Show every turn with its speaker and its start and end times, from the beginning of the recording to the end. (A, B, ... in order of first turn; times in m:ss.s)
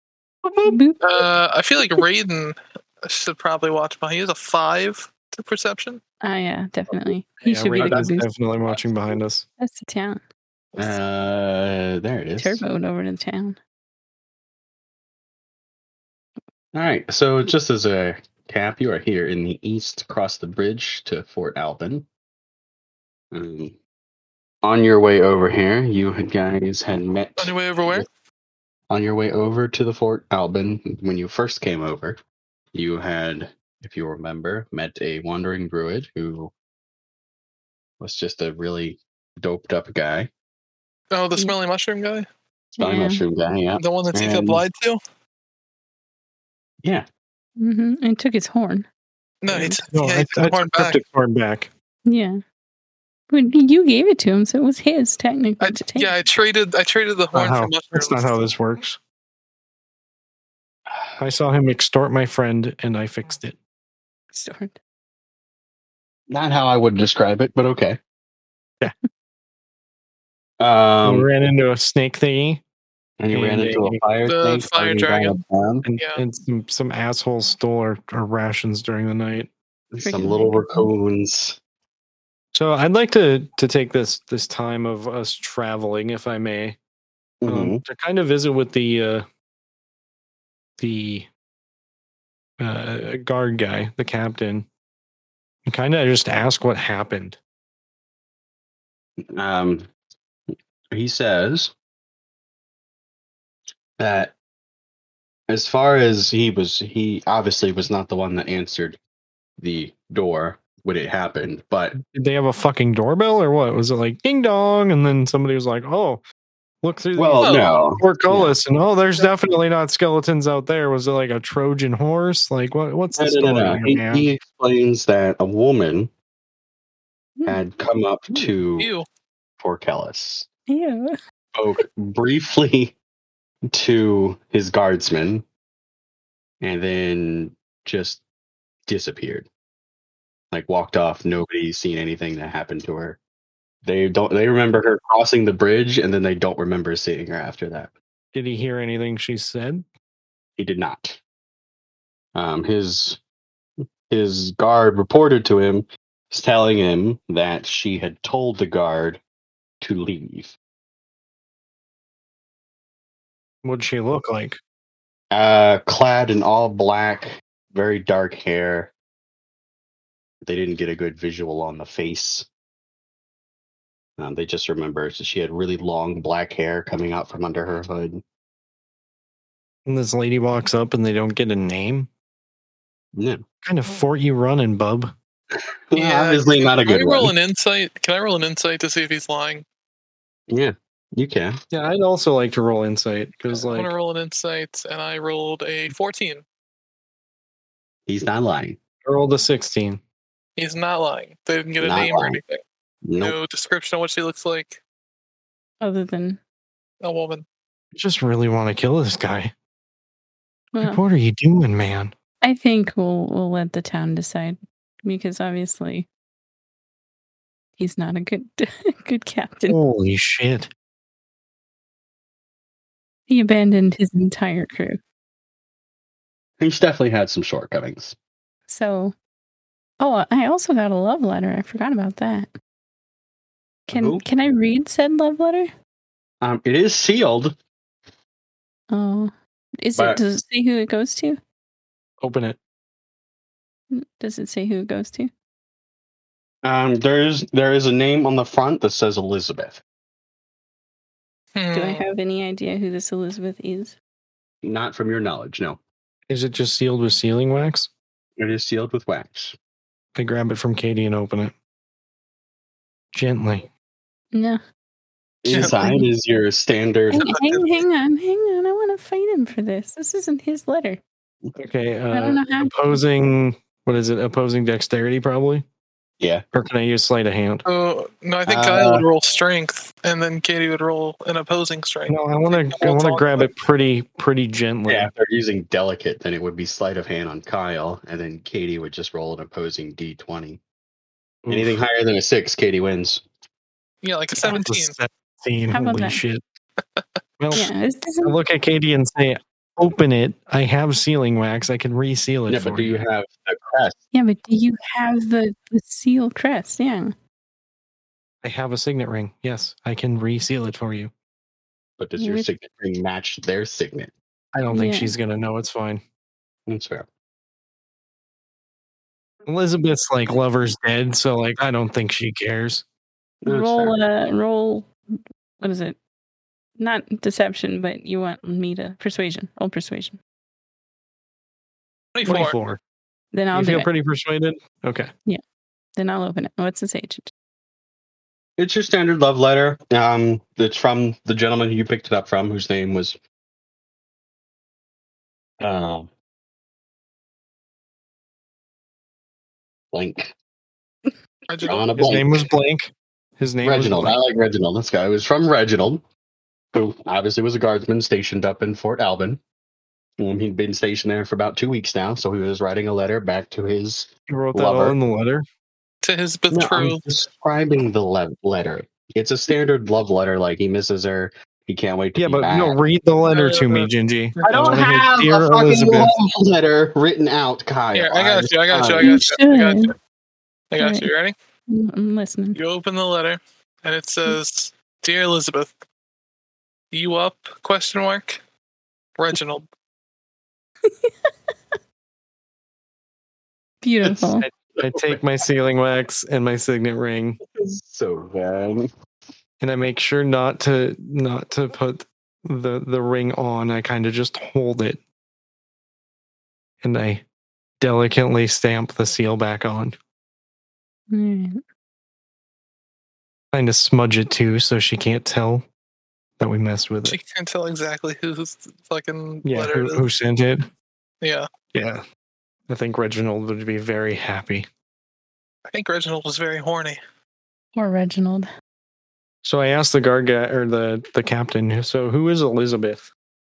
0:00.4-0:00.8 A
0:00.6-0:01.0 B
0:01.0-0:06.0 C
0:06.2-0:08.3 B
0:07.4-0:09.4 A
0:09.6-0:10.2 B
0:10.8-0:12.6 D
0:12.4-0:13.6 B
0:16.7-0:22.1 D
0:23.3-0:23.8 D
0:24.6-0:28.0 D
0:27.4-0:28.1 C
0:28.9-0:32.2 D
0:32.7-0:36.5 D
0:38.0-0:40.3 D
0:41.1-0:42.2 C
0:42.8-0:44.6 D
0:42.8-0:43.2 B
0:43.8-0:45.0 C
0:47.6-0:48.9 B
0:49.4-0:51.0 C
0:49.5-0:49.8 B
0:49.9-0:51.7 A
0:52.0-0:52.4 B
0:53.3-0:56.1 B
0:55.6-0:58.4 C
0:57.3-0:59.0 A
1:00.9-1:01.2 D
1:01.2-1:03.6 A
1:04.3-1:04.8 B
1:06.3-1:08.0 D
1:10.6-1:11.3 D
1:11.0-1:12.6 A
1:13.2-1:15.8 D
1:13.3-1:14.0 A
1:14.2-1:15.4 C
1:15.8-1:19.5 A
1:19.9-1:21.6 D
1:20.0-1:20.9 B
1:22.5-1:26.8 A
1:27.4-1:27.8 D
1:27.4-1:29.2 A
1:30.8-1:31.3 A
1:32.6-1:34.7 A
1:35.6-1:37.4 A
1:39.3-1:39.9 D
1:40.9-1:41.7 D
1:44.0-1:44.3 D
1:45.5-1:49.0 D
1:49.6-1:52.0 D
1:52.0-1:56.2 A
1:56.8-2:04.3 A
1:57.2-1:58.5 D
1:57.4-1:57.8 C
2:03.2-2:06.1 D
2:07.4-2:08.9 D
2:08.8-2:09.0 C
2:09.6-2:10.4 D
2:10.7-2:11.1 B
2:11.5-2:13.0 D
2:13.7-2:15.4 D
2:16.6-2:18.2 D
2:18.9-2:19.5 D
2:20.5-2:23.2 D
2:23.8-2:27.9 D
2:28.3-2:29.8 A
2:30.6-2:31.2 D
2:32.3-2:33.2 D
2:34.1-2:39.2 D
2:39.8-2:40.6 D
2:43.6-2:44.6 A
2:45.3-2:48.9 D
2:50.4-2:52.5 D
2:54.2-2:58.2 D
2:59.8-3:02.1 A
3:03.1-3:03.4 D
3:03.6-3:05.1 A
3:05.5-3:07.3 D
3:05.9-3:09.6 C
3:10.5-3:11.6 D
3:11.7-3:13.9 A
3:13.6-3:16.4 C
3:18.1-3:18.8 D
3:19.0-3:20.0 A
3:20.6-3:22.6 C
3:21.8-3:22.4 D
3:23.0-3:23.4 D
3:23.2-3:24.8 C
3:25.8-3:26.4 B
3:27.0-3:27.4 C
3:27.9-3:29.5 A
3:30.7-3:31.0 B
3:30.8-3:32.1 A
3:32.4-3:36.1 B
3:37.8-3:39.8 B
3:39.7-3:40.7 A
3:43.3-3:45.0 B
3:46.6-3:48.1 D
3:48.7-3:49.1 B
3:50.0-3:52.5 B
3:53.9-3:54.2 D
3:53.9-3:55.7 B
3:56.4-3:57.6 D
3:58.9-4:01.4 B
3:59.9-4:00.2 D
4:02.2-4:02.6 A
4:03.9-4:05.3 B
4:06.6-4:09.8 D
4:11.5-4:12.0 C
4:11.7-4:13.9 B
4:14.6-4:15.8 D
4:16.3-4:17.9 A
4:18.4-4:19.6 D
4:20.1-4:21.5 A
4:23.1-4:23.7 A
4:24.3-4:24.6 B
4:25.4-4:27.4 D
4:25.5-4:25.8 C
4:25.5-4:26.1 B
4:27.1-4:31.0 B
4:31.6-4:35.6 A
4:32.1-4:33.0 B
4:36.2-4:36.4 D
4:36.5-4:37.6 A
4:37.6-4:43.5 C
4:38.5-4:39.1 D
4:42.1-4:45.1 A
4:44.9-4:50.6 D
4:51.4-4:51.8 A
4:51.5-4:53.2 D
4:54.0-4:55.0 C
4:54.4-4:56.4 A
4:55.7-4:56.2 B
4:57.4-4:57.7 A
4:57.5-4:58.4 B
4:58.2-5:03.0 A
5:02.5-5:04.0 D
5:04.1-5:07.1 B
5:08.4-5:11.1 A
5:12.0-5:14.1 D
5:12.2-5:12.5 B
5:14.5-5:16.0 A
5:14.7-5:15.1 B
5:16.7-5:17.1 D
5:19.4-5:22.8 A
5:23.4-5:24.0 D
5:23.5-5:24.9 B
5:25.6-5:26.0 B
5:26.8-5:30.2 B
5:32.2-5:32.6 C
5:32.2-5:32.8 A
5:33.3-5:33.9 B
5:33.5-5:35.1 A
5:36.0-5:37.3 B
5:38.6-5:43.2 D
5:45.6-5:46.1 D
5:49.9-5:50.3 D
5:51.5-5:51.9 C
5:51.6-5:52.5 D
5:52.0-5:54.2 A
5:53.6-5:56.0 D
5:56.7-5:59.4 D
6:00.2-6:05.0 D
6:04.3-6:05.4 A
6:06.0-6:07.0 C
6:06.5-6:12.8 D
6:12.2-6:16.1 A
6:13.3-6:14.8 C
6:14.4-6:19.1 D
6:17.9-6:19.9 C
6:19.0-6:19.9 B
6:20.7-6:21.3 C
6:20.8-6:21.1 B
6:21.7-6:22.6 B
6:22.5-6:25.7 C
6:26.9-6:28.4 C
6:29.2-6:29.6 C
6:33.8-6:34.4 B
6:34.4-6:37.4 A
6:34.8-6:35.2 D
6:37.5-6:38.9 D
6:39.6-6:45.0 A
6:46.8-6:47.2 A
6:47.8-6:49.9 A
6:51.1-6:51.6 B
6:53.5-6:55.6 A
6:56.4-6:57.2 A
6:57.0-7:00.0 C
6:59.4-7:00.7 A
7:01.7-7:02.0 A
7:02.7-7:04.7 A
7:05.7-7:07.0 C
7:07.7-7:08.5 B
7:09.4-7:13.1 A